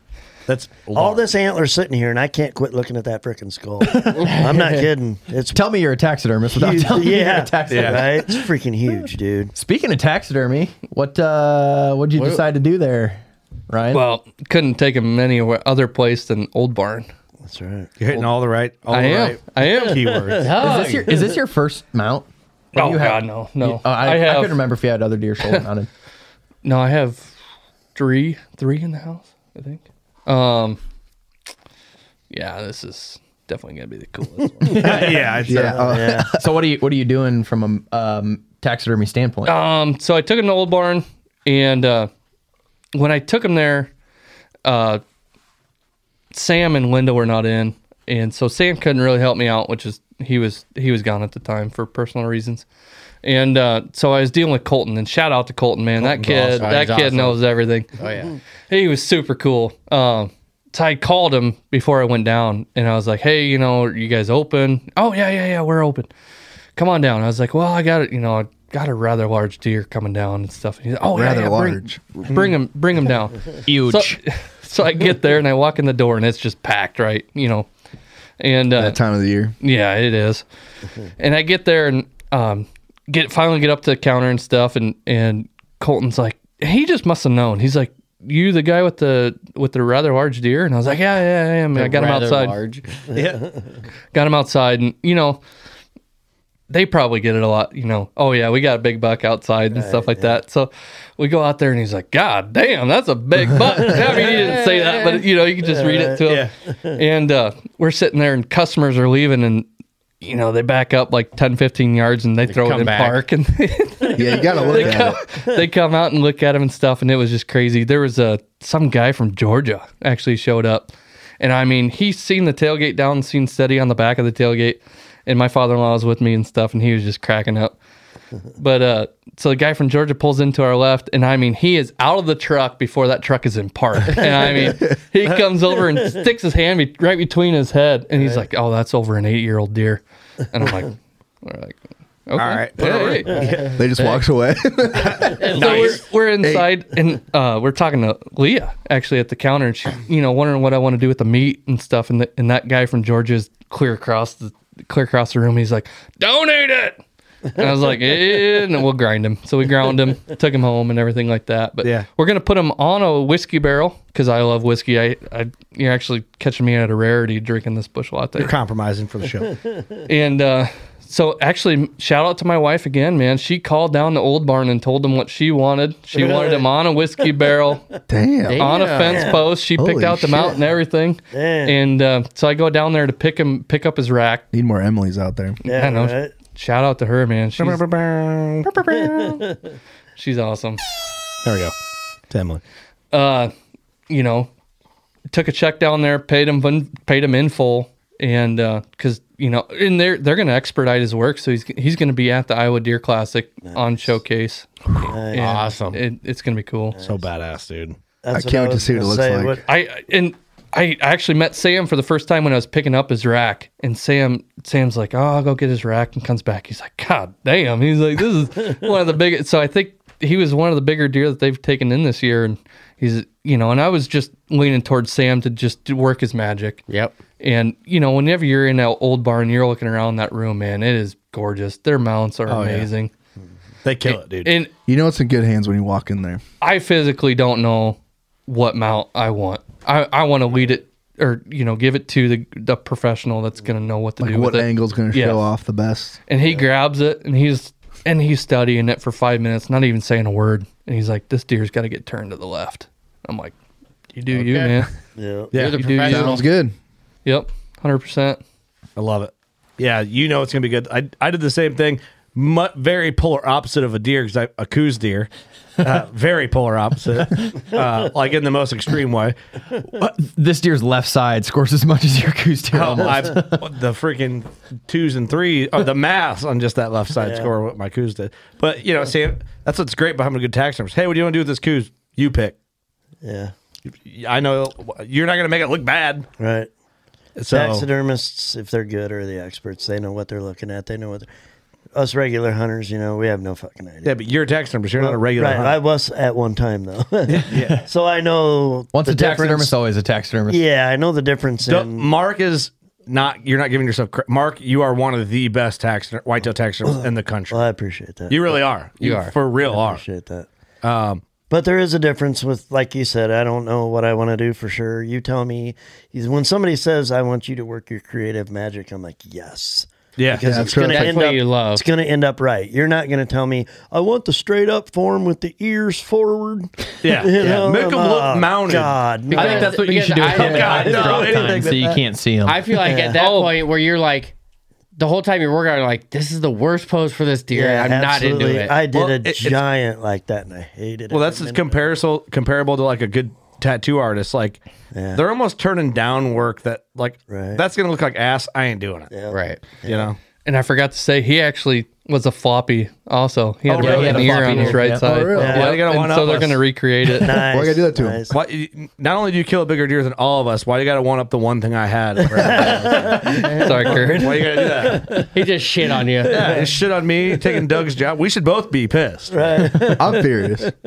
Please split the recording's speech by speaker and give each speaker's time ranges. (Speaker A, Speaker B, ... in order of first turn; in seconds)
Speaker A: 0.5-1.2, 7.7-8.1, 18.0-20.6, 34.8-35.9, 56.0-56.7, 72.3-72.6, 93.1-93.4, 106.2-106.5, 142.4-143.8, 145.0-146.0, 168.4-169.5, 187.6-188.7, 191.4-191.7, 192.3-192.6, 207.0-208.0, 232.5-232.9, 233.8-234.5, 259.0-265.3, 265.8-269.4, 272.7-282.6, 284.0-286.3, 287.4-287.9, 294.1-295.8, 297.3-297.6, 301.7-307.6, 308.3-310.0, 310.8-311.2, 320.2-320.6, 327.0-329.0, 330.2-332.0, 338.9-339.6, 341.1-344.6, 345.1-349.1, 349.8-350.2, 353.7-354.8, 355.4-356.6, 358.3-365.1, 366.3-369.7
Speaker B: 0.9-5.6, 6.5-9.5, 17.4-18.0, 20.0-20.8, 34.7-35.0, 35.5-36.3, 93.2-93.5, 99.8-100.4, 103.5-104.2, 105.6-107.0, 114.0-115.6, 169.7-170.1, 176.1-177.5, 179.1-179.5, 181.3-181.8, 185.7-186.4, 188.9-189.6, 203.6-204.2, 205.1-205.6, 206.9-207.3, 208.2-209.6, 255.2-255.5, 273.0-273.4, 277.2-277.5, 283.2-283.5, 286.4-286.7, 287.5-291.3, 291.9-294.2, 295.0-299.7, 300.5-302.1, 306.8-308.6, 309.6-310.5, 311.5-329.8, 332.8-333.2, 337.5-341.9, 344.9-345.2, 347.3-347.6, 349.1-350.1, 355.3-355.8, 357.1-358.3, 362.3-365.3, 366.3-366.7, 369.3-370.7
Speaker C: 3.9-4.3, 5.5-14.0, 20.6-25.9, 34.7-35.3, 36.3-39.6, 73.7-74.2, 269.9-273.6, 297.5-297.9, 298.9-300.6, 329.3-332.7, 353.7-355.1
Speaker D: 4.2-4.8, 12.2-12.4, 20.4-21.3, 56.5-57.4, 58.0-58.4, 91.7-92.9, 104.0-105.2, 112.5-113.3, 145.4-145.9, 178.5-179.4, 205.4-206.0, 226.9-227.2, 254.3-254.8, 255.5-256.5, 309.0-309.3, 320.7-321.9, 329.3-331.3, 332.5-334.4, 335.0-338.8, 349.3-349.6, 365.3-366.6
Speaker E: 13.9-17.1, 18.9-20.0, 22.8-24.6, 26.6-27.3, 27.9-30.8, 32.3-34.7, 39.5-42.1, 43.0-43.9, 44.6-45.0, 46.3-52.7, 53.2-57.9, 58.7-66.1, 66.8-77.7, 78.4-79.0, 79.6-80.4, 81.2-92.6, 94.1-95.4, 96.7-109.7, 110.2-127.8, 128.6-144.2, 145.4-157.0, 157.6-168.5, 170.1-177.8, 178.6-184.5, 185.6-187.8, 188.7-189.4, 190.2-190.8, 193.1-193.5, 194.1-194.5, 195.3-207.0, 209.7-226.8, 227.4-233.1, 234.1-234.7, 236.6-245.4, 246.3-253.6, 254.1-254.9, 255.6-256.4, 257.2-258.4, 333.1-333.6, 350.4-357.4, 363.5-364.4
Speaker F: 34.8-36.5, 71.1-72.0, 78.8-79.5, 114.2-115.2, 134.6-135.0, 143.8-145.6, 146.4-146.8, 178.1-178.7, 179.8-180.6, 184.5-185.6, 208.3-209.6, 234.9-236.4, 244.2-246.2, 256.1-256.7, 320.4-321.1, 355.0-355.6, 357.3-358.2, 369.7-370.7